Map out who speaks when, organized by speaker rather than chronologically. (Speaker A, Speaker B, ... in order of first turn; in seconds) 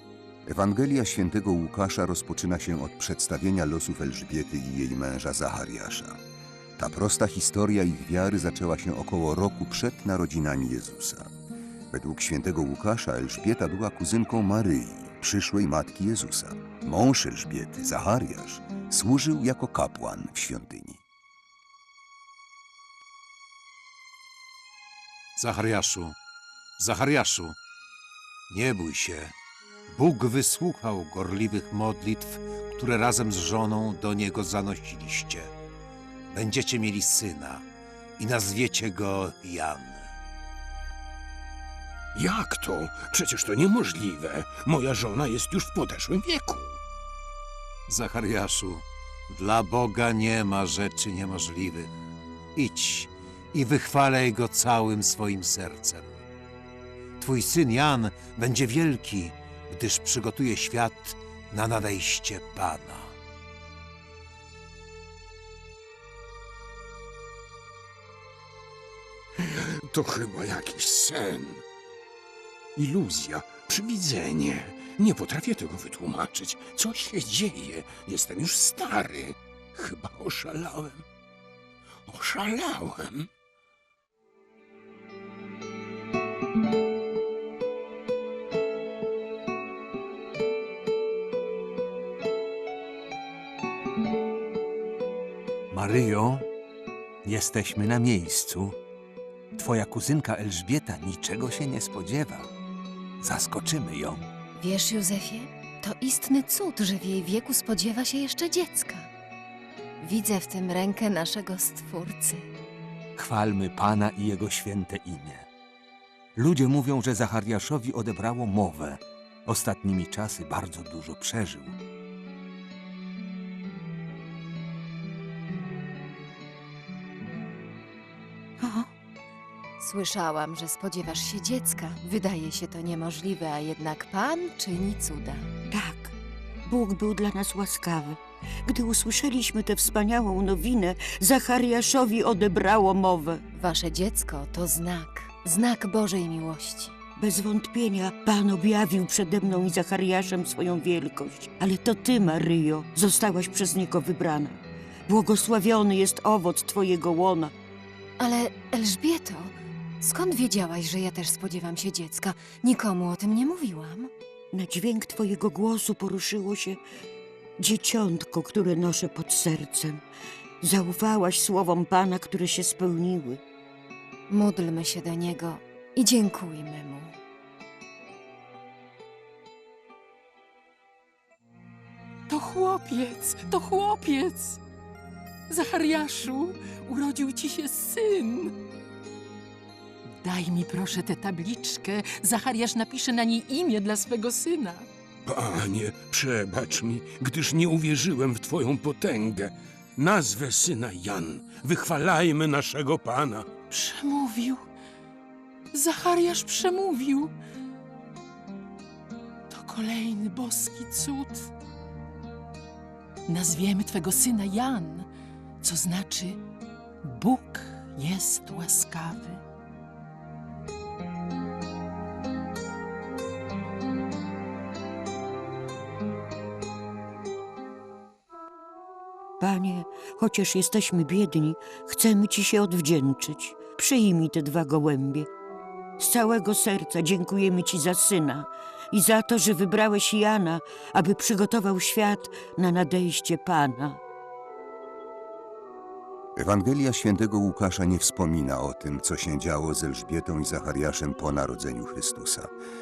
Speaker A: 0.5-6.2, 6.8-11.3, 11.9-21.0, 246.4-252.5
Speaker B: 25.4-26.1, 26.8-27.6, 28.5-29.3, 29.9-35.5, 36.3-37.6, 38.2-40.1, 47.9-51.9, 52.5-56.2, 57.2-63.1
Speaker C: 42.1-46.8, 69.4-71.6, 72.7-81.0, 82.1-83.3, 195.3-203.5
Speaker D: 95.7-96.5, 97.2-98.8, 99.5-102.5, 103.2-104.3, 113.2-115.5, 116.3-121.8
Speaker E: 104.6-109.1, 110.0-112.5, 129.8-135.5, 143.5-146.9, 158.2-164.1, 174.3-177.2
Speaker F: 128.6-128.9, 135.7-143.4, 147.2-157.5, 164.5-166.8, 167.6-170.0, 170.6-173.4, 229.4-235.3, 236.0-244.0
Speaker G: 182.3-184.6, 185.5-188.5, 190.2-194.9, 203.7-204.6, 205.7-207.3, 209.5-211.5, 213.3-215.1, 215.6-216.4, 217.0-219.4